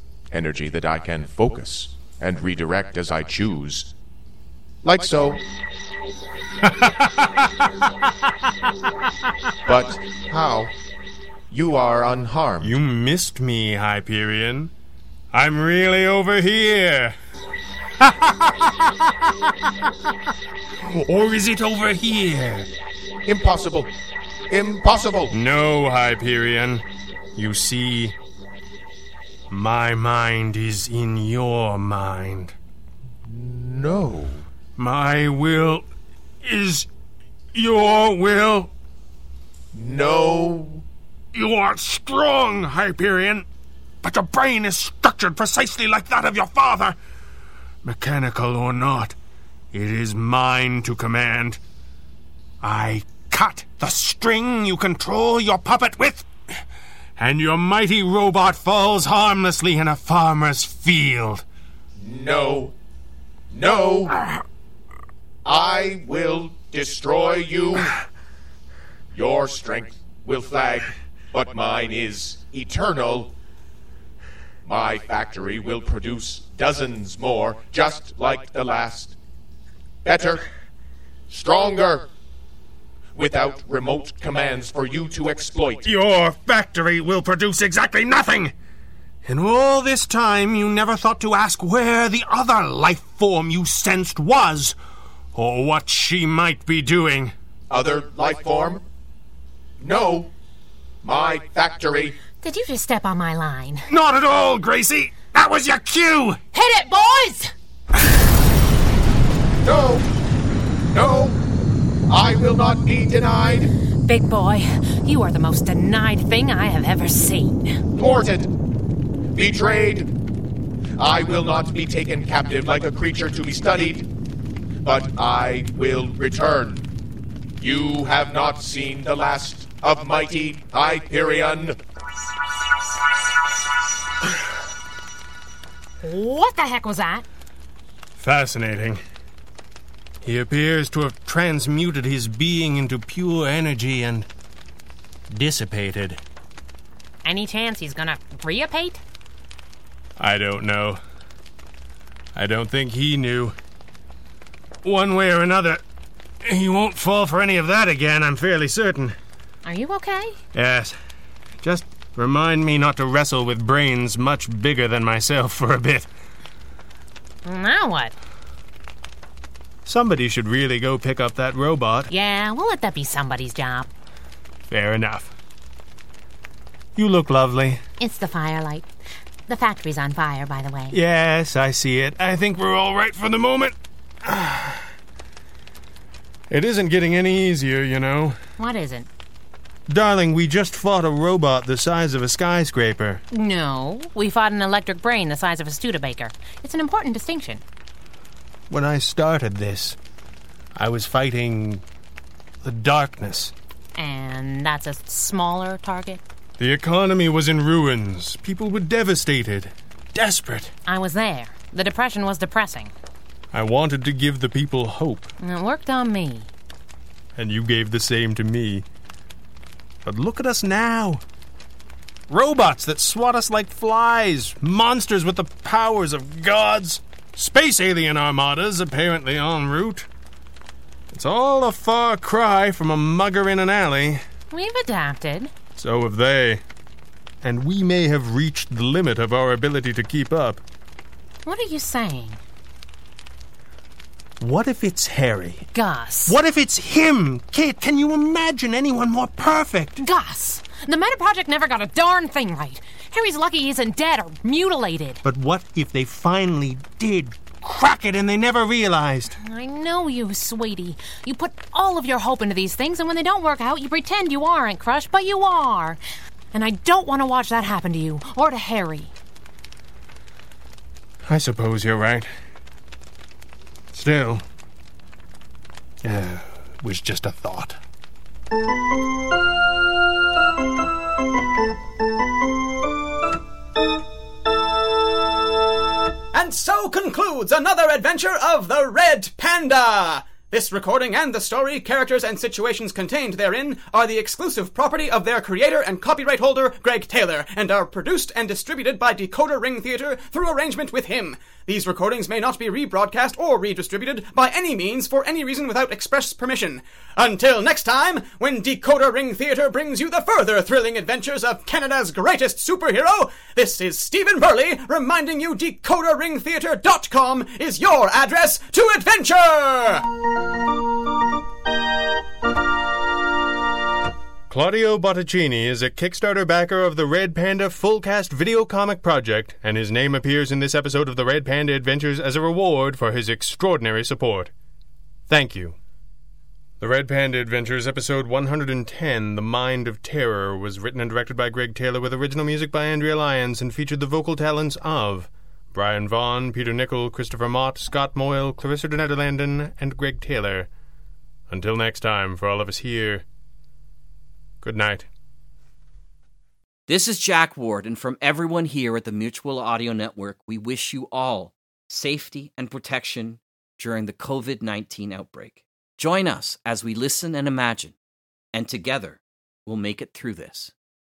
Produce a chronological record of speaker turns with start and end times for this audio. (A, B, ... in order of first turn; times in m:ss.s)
0:00.3-0:03.9 A
0:04.8-0:05.4 A
0:06.6-0:07.5 B
0:09.6-0:10.8 A
0:11.5-0:12.8 A
0:12.6-0:14.7 B
0:15.3-0:17.1 B
0:18.0-0:19.9 B
0:20.8-0:22.7 B
0:23.2-0:23.9 A
0:24.5-0:25.4 A
0:25.3-0:26.8 B
0:27.4-0:28.1 B
0:29.5-0:32.5 B
0:33.2-0:34.4 A
0:34.8-0:35.8 B
0:36.4-0:36.9 B
0:37.5-0:38.7 B
0:39.7-0:40.8 A
0:41.3-0:43.4 B
0:44.0-0:47.0 B
0:47.8-0:49.2 B
0:49.7-0:51.6 B
0:52.6-0:56.3 B
0:57.2-1:01.4 B
1:02.0-1:02.8 A
1:03.5-1:04.2 A
1:05.4-1:07.9 A
1:09.1-1:13.3 A
1:14.6-1:19.2 A
1:20.0-1:20.4 A
1:21.3-1:22.1 A
1:23.1-1:25.9 A
1:25.8-1:28.5 B
1:29.2-1:34.8 B
1:35.3-1:37.3 B
1:37.7-1:38.8 A
1:39.8-1:40.3 A
1:41.0-1:42.2 A
1:42.4-1:43.9 C
1:43.9-1:46.4 B
1:46.5-1:47.5 C
1:49.6-1:50.1 A
1:50.9-1:51.4 A
1:52.1-1:53.7 A
1:54.0-1:57.8 C
1:58.0-1:58.5 A
1:59.3-2:00.1 A
2:01.0-2:04.1 A
2:04.8-2:06.8 A
2:07.6-2:11.8 A
2:16.0-2:17.2 C
2:18.2-2:19.0 B
2:20.2-2:24.3 B
2:25.3-2:26.2 B
2:27.2-2:29.0 C
2:30.2-2:31.0 B
2:32.3-2:33.5 B
2:34.8-2:35.8 B
2:36.4-2:39.2 B
2:39.6-2:40.4 C
2:40.5-2:41.0 B
2:41.6-2:46.1 B
2:47.4-2:48.1 C
2:49.8-2:52.1 B
2:52.1-2:53.9 C
2:54.7-2:55.3 B
2:57.0-2:57.8 B
2:58.0-2:58.8 C
2:59.5-3:01.0 C
3:00.9-3:04.8 B
3:06.5-3:08.4 B
3:08.6-3:09.1 C
3:09.9-3:13.2 B
3:13.3-3:17.6 C
3:18.7-3:20.0 B
3:20.8-3:21.8 B
3:22.6-3:23.5 B
3:24.0-3:26.2 C
3:26.6-3:30.7 B
3:30.8-3:32.9 C
3:33.5-3:35.3 B
3:35.4-3:36.5 C
3:37.4-3:38.8 B
3:40.0-3:41.2 B
3:42.3-3:50.1 B
3:51.1-3:54.2 B
3:54.5-3:55.5 C
3:55.8-3:56.6 B
3:57.4-4:00.6 B
4:01.4-4:02.4 C
4:04.4-4:05.7 B
4:05.7-4:06.4 C
4:06.3-4:10.0 B
4:10.0-4:15.2 C
4:15.2-4:19.4 B
4:19.4-4:26.0 C
4:26.5-4:29.1 C
4:31.2-4:32.3 B
4:33.9-4:34.4 B
4:36.0-4:37.8 B
4:46.3-5:20.1 D
5:24.5-5:34.5 B
5:35.3-5:35.8 B
5:36.8-5:50.7 B
5:51.5-5:53.2 B
5:54.6-5:55.1 B
5:56.9-6:07.9 E
6:08.5-6:10.7 E